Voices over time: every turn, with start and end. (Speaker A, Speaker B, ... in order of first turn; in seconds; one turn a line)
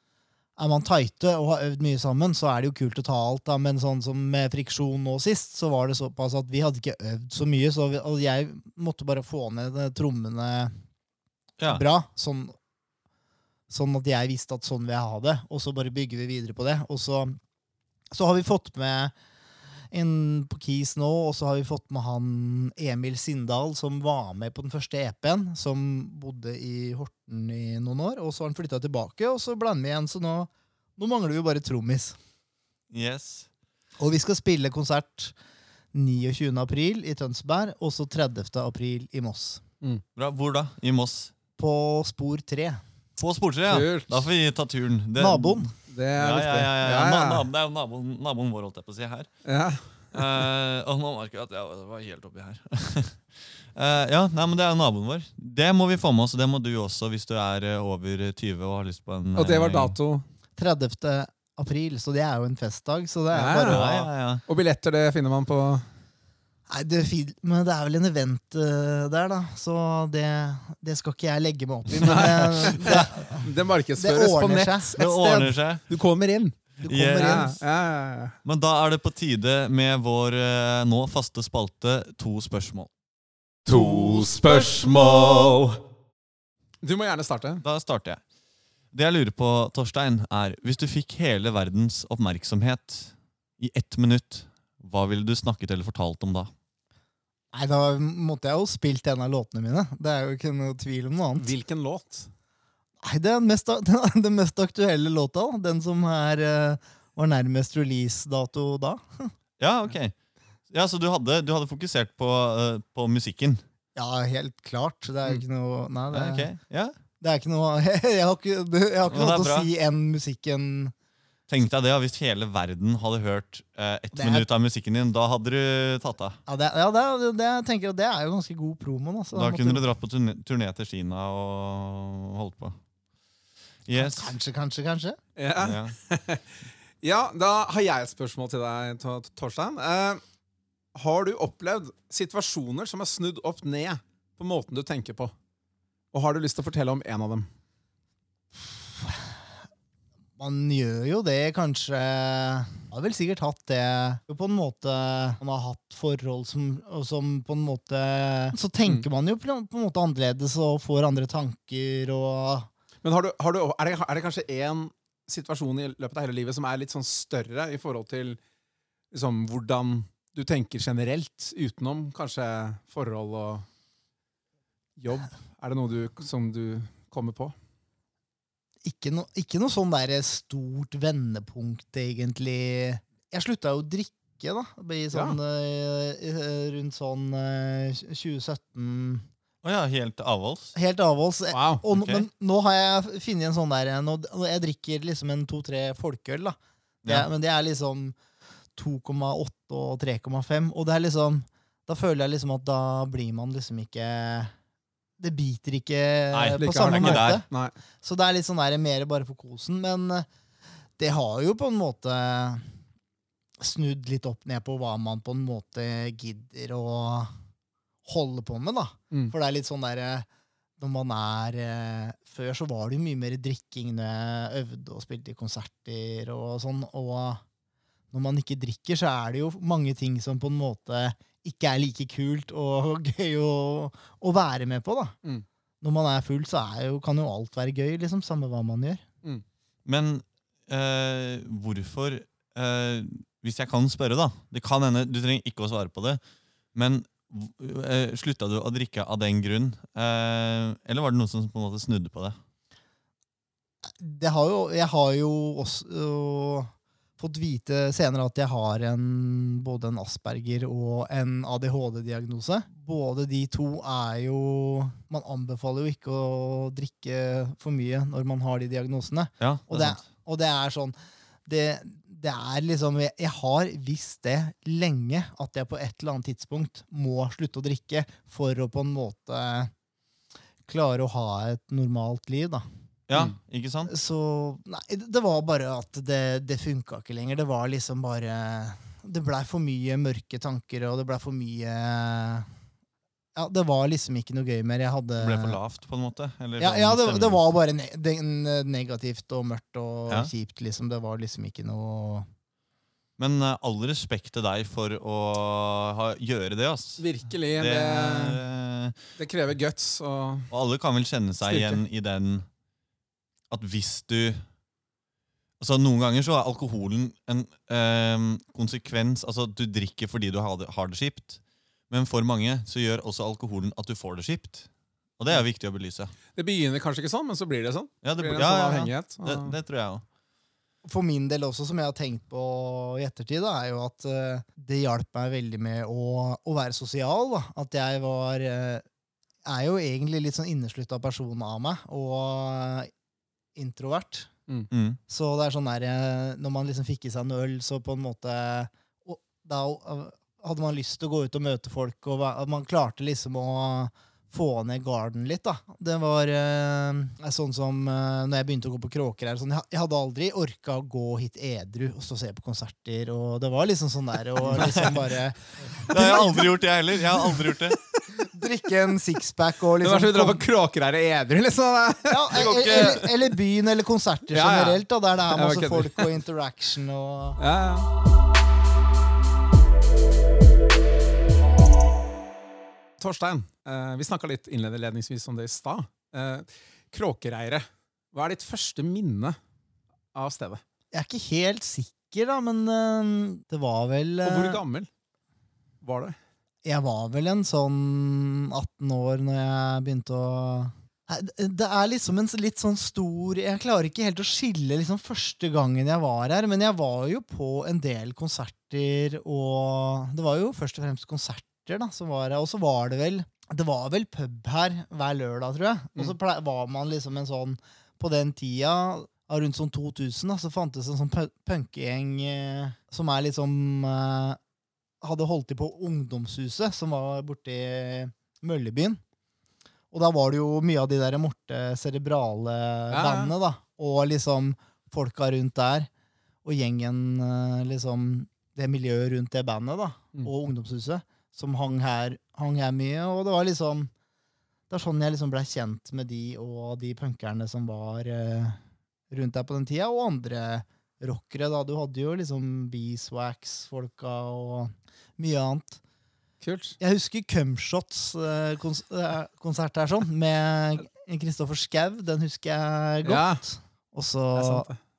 Speaker A: 0.6-10.8
Speaker A: 11.7-12.6
Speaker A: 13.7-17.4
Speaker A: 18.1-19.1
Speaker A: 19.9-32.2
Speaker B: 32.9-33.5
Speaker A: 34.0-35.3
Speaker A: 35.9-39.6
Speaker B: 40.1-41.3
Speaker A: 41.6-42.8
Speaker B: 43.2-49.3
Speaker C: 43.7-44.2
Speaker A: 45.2-45.7
Speaker C: 45.9-47.5
Speaker C: 49.4-50.5
Speaker B: 50.1-60.0
Speaker C: 59.4-60.2
Speaker A: 60.6-63.8
Speaker C: 63.3-65.9
Speaker B: 63.5-64.4
Speaker A: 66.7-74.9
Speaker C: 72.0-76.6
Speaker B: 75.0-75.8
Speaker A: 76.8-77.6
Speaker B: 76.9-77.6
Speaker C: 77.1-78.4
Speaker B: 78.4-82.9
Speaker B: 83.6-85.8
Speaker C: 86.8-87.6
Speaker B: 87.6-88.2
Speaker B: 88.9-96.5
Speaker A: 97.5-101.5
Speaker C: 101.4-102.3
Speaker A: 103.0-109.3
Speaker B: 109.6-110.1
Speaker B: 110.7-113.6
Speaker A: 114.0-116.5
Speaker B: 116.1-117.0
Speaker A: 117.2-120.9
Speaker B: 119.1-119.7
Speaker B: 121.5-126.4
Speaker A: 124.1-124.5
Speaker A: 126.5-129.8
Speaker B: 129.3-132.8
Speaker B: 133.8-134.3
Speaker A: 133.9-135.2
Speaker C: 135.4-136.5
Speaker B: 135.6-135.9
Speaker C: 137.0-140.2
Speaker C: 140.9-145.3
Speaker C: 146.1-147.5
Speaker A: 149.0-149.3
Speaker A: 150.4-162.7
Speaker C: 163.0-168.4
Speaker C: 169.1-173.7
Speaker C: 175.0-177.5
Speaker A: 178.8-189.2
Speaker B: 189.6-190.7
Speaker A: 190.7-198.2
Speaker C: 191.5-191.8
Speaker B: 191.9-192.3
Speaker A: 198.7-204.5
Speaker A: 205.2-207.4
Speaker B: 206.3-207.4
Speaker C: 206.6-207.7
Speaker A: 208.0-210.3
Speaker A: 211.0-212.7
Speaker A: 213.6-217.3
Speaker A: 218.0-220.3
Speaker A: 220.8-227.4
Speaker A: 228.1-235.1
Speaker A: 235.8-239.0
Speaker B: 239.8-246.2
Speaker B: 246.7-252.4
Speaker A: 254.0-270.9
Speaker B: 269.4-270.0
Speaker A: 271.4-279.7
Speaker A: 280.7-282.6
Speaker B: 283.1-283.9
Speaker A: 283.9-292.5
Speaker A: 293.3-295.6
Speaker B: 295.2-297.4
Speaker A: 296.6-302.3
Speaker B: 303.2-307.0
Speaker C: 307.0-308.4
Speaker B: 307.6-309.0
Speaker C: 309.2-310.5
Speaker B: 310.5-312.5
Speaker C: 311.4-311.8
Speaker B: 313.5-314.4
Speaker B: 315.6-326.1
Speaker C: 326.3-329.5
Speaker B: 328.0-330.0
Speaker A: 330.8-338.8
Speaker A: 339.4-342.9
Speaker A: 343.6-344.3
Speaker B: 344.7-345.0
Speaker A: 345.1-367.3
Speaker B: 364.5-364.9
Speaker B: 365.8-367.8
Speaker A: 368.1-370.4
Speaker C: 369.8-373.1
Speaker A: 372.1-377.4
Speaker B: 372.3-373.0
Speaker C: 374.3-376.2
Speaker C: 377.4-377.9
Speaker C: 383.0-389.4
Speaker C: 390.1-390.6
Speaker A: 390.9-394.6
Speaker C: 394.2-394.9
Speaker C: 395.8-396.2
Speaker A: 396.6-424.4
Speaker A: 425.0-429.0
Speaker A: 429.9-435.9
Speaker C: 432.9-433.3
Speaker A: 436.4-443.9
Speaker A: 444.7-448.6
Speaker A: 449.1-455.8
Speaker C: 456.4-456.8
Speaker A: 456.8-464.7
Speaker C: 463.0-463.4
Speaker C: 464.3-464.8